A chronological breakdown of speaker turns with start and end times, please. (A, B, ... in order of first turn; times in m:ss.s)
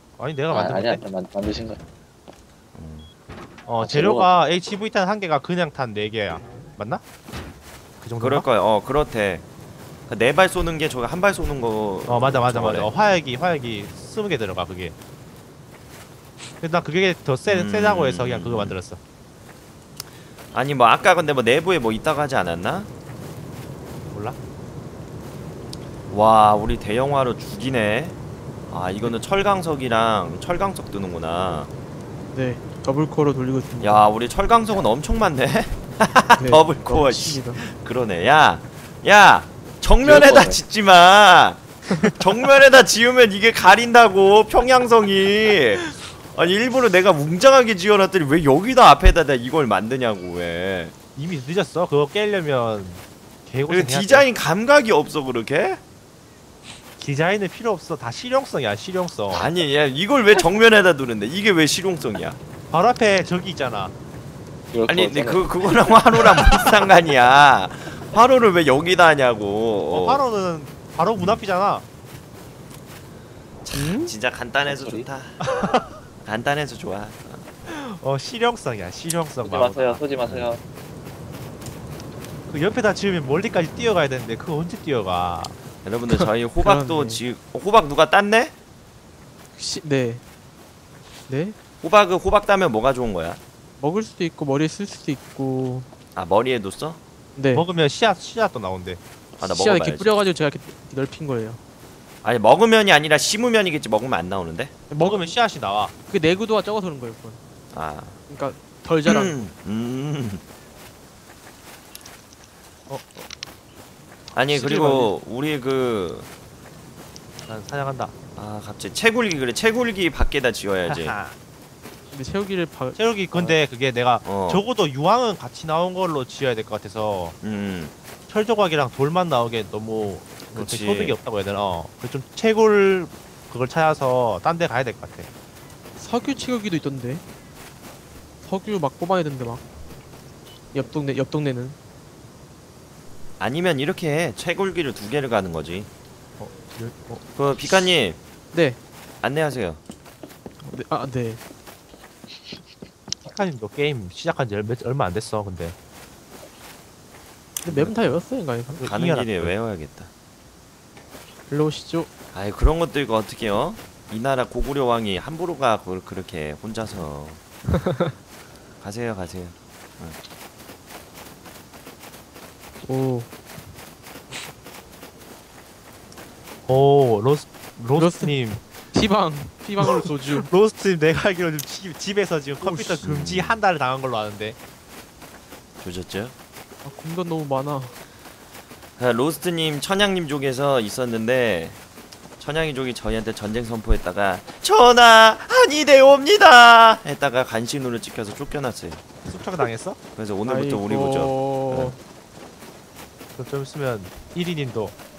0:00.2-0:01.0 A
0:00.5-0:01.8 B
0:02.7-0:03.1 C
0:03.7-0:07.0 A
0:03.8-0:04.4 B
0:08.0-0:08.5 A
0:08.2-0:09.4 C
0:10.1-0:12.9 C
0:12.1-0:14.9 A
0:16.6-0:19.0 A
0:17.4-0:18.8 C
0:20.5-0:22.9 C
0:24.1-0:24.4 A
0:26.1-0:28.2 C
0:28.7-0:31.7 C
0:32.3-0:34.0 D
0:33.8-0:35.8 C
0:36.0-0:36.3 A
0:36.4-0:37.6 D
0:36.4-0:41.6 C
0:40.0-0:40.6 B
0:42.2-0:50.9 C
0:51.2-0:54.3 A
0:53.7-0:55.8 C
0:57.0-0:59.5 A
0:59.3-1:02.4 C
1:02.7-1:03.9 A
1:04.7-1:05.5 B
1:04.8-1:10.2 C
1:09.9-1:11.8 A
1:11.2-1:11.4 C
1:13.6-1:15.4 C
1:13.7-1:14.1 D
1:14.6-1:15.1 B
1:15.4-1:16.0 A
1:16.2-1:17.4 C
1:17.6-1:20.0 A
1:19.4-1:20.6 B
1:20.2-1:20.5 C
1:22.5-1:25.6 A
1:25.8-1:28.5 C
1:26.1-1:27.2 D
1:29.6-1:30.2 D
1:31.3-1:31.6 D
1:31.8-1:33.4 C
1:33.8-1:35.9 D
1:36.2-1:37.0 C
1:37.4-1:37.6 D
1:37.5-1:39.0 A
1:39.4-1:41.6 D
1:39.4-1:40.2 C
1:42.2-1:44.7 C
1:44.9-1:45.3 D
1:45.0-1:45.9 A
1:46.1-1:47.4 D
1:47.7-1:48.2 C
1:48.3-1:49.4 D
1:49.0-1:50.4 C
1:52.9-1:53.3 A
1:54.3-1:56.3 C
1:54.5-1:55.1 D
1:57.4-1:58.1 A
1:58.4-2:01.2 C
2:00.8-2:01.4 A
2:02.1-2:03.6 D
2:03.0-2:07.4 A
2:04.2-2:04.6 C
2:07.4-2:07.9 C
2:08.3-2:15.3 A
2:10.5-2:11.2 C
2:16.0-2:17.2 D
2:18.4-2:19.6 D
2:20.7-2:21.8 D
2:23.4-2:25.9 C
2:26.4-2:27.2 A
2:27.4-2:28.2 C
2:28.5-2:28.8 D
2:29.2-2:29.8 C
2:30.6-2:31.4 D
2:33.2-2:35.7 A
2:37.6-2:38.8 D
2:37.6-2:38.0 C
2:38.7-2:39.5 A
2:38.8-2:40.1 C
2:41.5-2:42.1 D
2:42.3-2:47.4 C
2:47.7-2:48.1 D
2:48.8-2:50.2 C
2:52.8-2:53.3 D
2:56.7-2:58.6 A
2:57.9-2:58.4 D
2:58.9-3:00.5 D
2:59.8-3:04.6 A
3:02.6-3:03.0 D
3:03.0-3:03.6 C
3:05.8-3:06.3 C
3:06.8-3:08.0 D
3:09.0-3:11.8 C
3:12.4-3:19.0 C
3:19.2-3:20.0 A
3:20.1-3:21.9 C
3:20.4-3:22.0 D
3:23.4-3:24.9 A